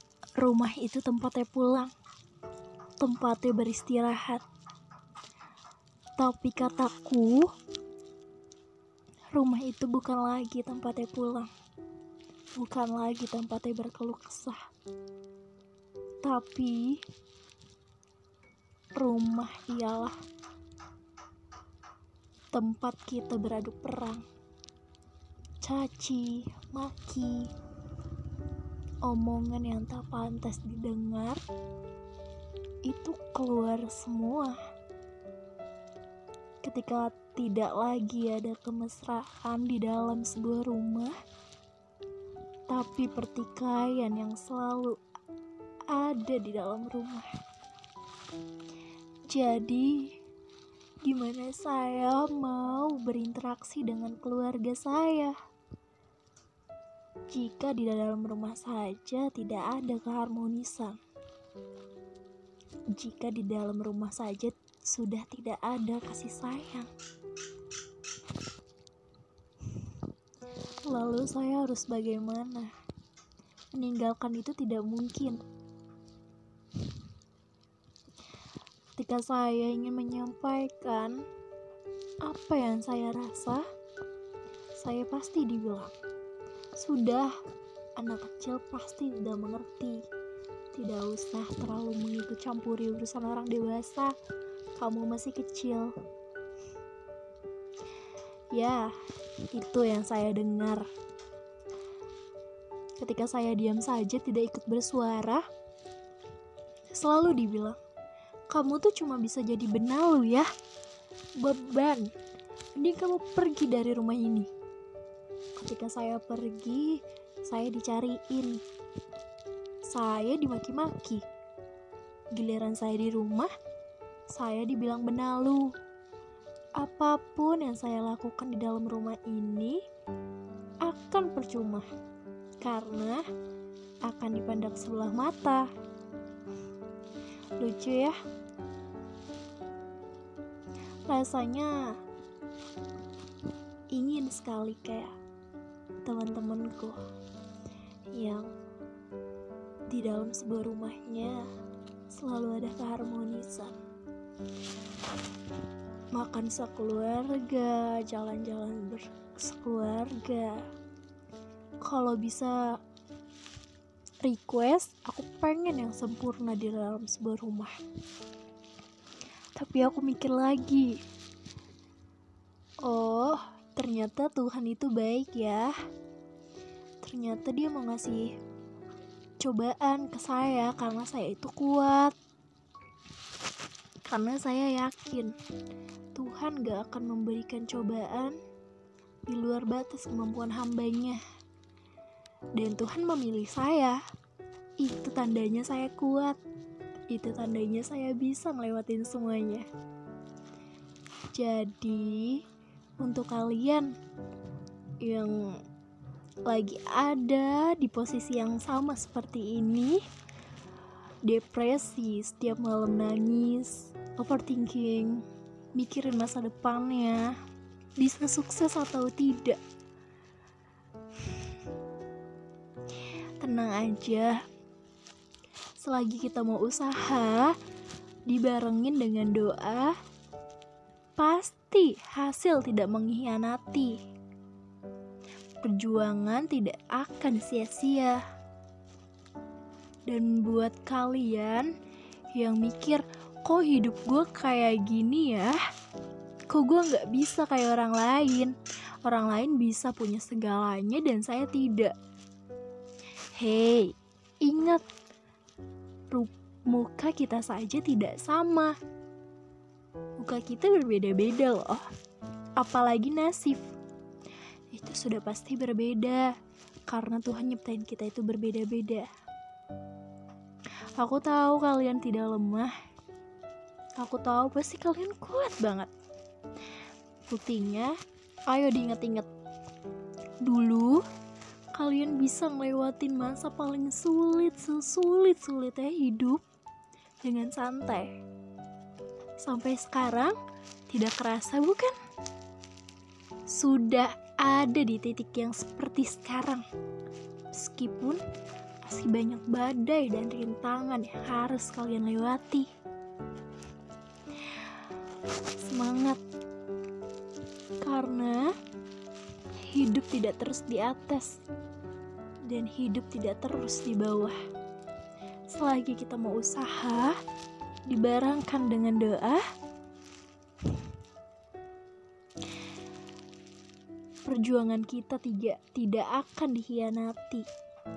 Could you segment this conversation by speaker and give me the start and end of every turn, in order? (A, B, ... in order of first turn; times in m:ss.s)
0:00.4-0:01.9 A
0:03.0-0:04.4 A
0:06.2-0:07.5 A
0:09.3-0:11.5 A
0:12.5-0:14.6 A
0:16.2-0:17.0 A
0:18.9-0:20.1 A
0:22.5-0:24.2 A
0:25.6-0:27.5 A
0:29.0-0:31.4 A
0:32.8-0:34.6 A
0:36.6-0:41.1 A
0:42.7-0:45.0 A
0:45.9-0:47.3 A
0:49.3-0:50.1 A
0:51.0-0:55.4 A
0:57.3-1:01.0 A
1:02.9-1:06.9 A
1:10.9-1:12.7 A
1:13.7-1:15.4 A
1:19.0-1:21.2 A
1:22.2-1:23.6 A
1:24.7-1:25.9 A
1:26.8-1:27.3 A
1:28.0-1:30.0 A
1:30.7-1:34.1 A
1:34.8-1:35.9 A
1:38.5-1:38.9 A
1:39.5-1:40.8 A
1:43.0-1:45.4 A
1:46.9-1:47.8 A
1:48.5-1:50.5 A
1:51.4-1:52.1 A
1:52.8-1:54.5 A
1:55.6-1:58.6 A
1:59.8-2:01.2 A
2:02.3-2:03.5 A
2:04.3-2:05.7 A
2:06.8-2:09.8 A
2:10.8-2:11.9 A
2:12.6-2:13.2 A
2:14.0-2:15.7 A
2:17.6-2:18.2 A
2:21.1-2:21.7 A
2:23.9-2:25.1 A
2:26.0-2:27.0 A
2:28.1-2:28.5 A
2:29.9-2:31.4 A
2:32.1-2:33.7 A
2:36.1-2:40.6 A
2:41.8-2:42.6 A
2:44.2-2:47.8 A
2:49.6-2:50.9 A
2:52.8-2:55.7 A
2:57.0-2:58.3 A
2:59.4-3:02.1 A
3:04.0-3:05.3 A
3:06.1-3:08.4 A
3:09.3-3:11.2 A
3:12.6-3:14.0 A
3:14.8-3:16.4 A
3:17.1-3:19.6 A
3:21.3-3:22.4 A
3:23.0-3:23.9 A
3:25.0-3:25.6 A
3:26.5-3:30.0 A
3:31.2-3:35.2 A
3:35.8-3:37.3 A
3:38.0-3:39.6 A
3:43.4-3:44.4 A
3:45.8-3:47.5 A
3:48.3-3:50.0 A
3:51.2-3:54.0 A
3:55.6-3:58.2 A
4:00.1-4:01.7 A
4:02.3-4:05.6 A
4:06.5-4:11.9 A
4:13.4-4:14.8 A
4:16.1-4:18.7 A
4:20.2-4:21.8 A
4:22.6-4:23.7 A
4:24.7-4:26.3 A
4:26.9-4:29.1 A
4:31.0-4:32.7 A
4:34.0-4:35.9 A
4:37.3-4:37.9 A
4:38.5-4:39.3 A
4:40.4-4:41.0 A
4:41.7-4:46.4 A
4:47.2-4:48.1 A
4:49.4-4:50.3 A
4:50.9-4:51.9 A
4:53.5-4:56.6 A
4:57.5-4:58.2 A
4:58.8-5:02.7 A
5:05.6-5:06.2 A
5:07.8-5:08.5 A
5:09.6-5:11.4 A
5:12.4-5:14.4 A
5:15.5-5:17.2 A
5:17.9-5:19.4 A
5:24.2-5:27.4 A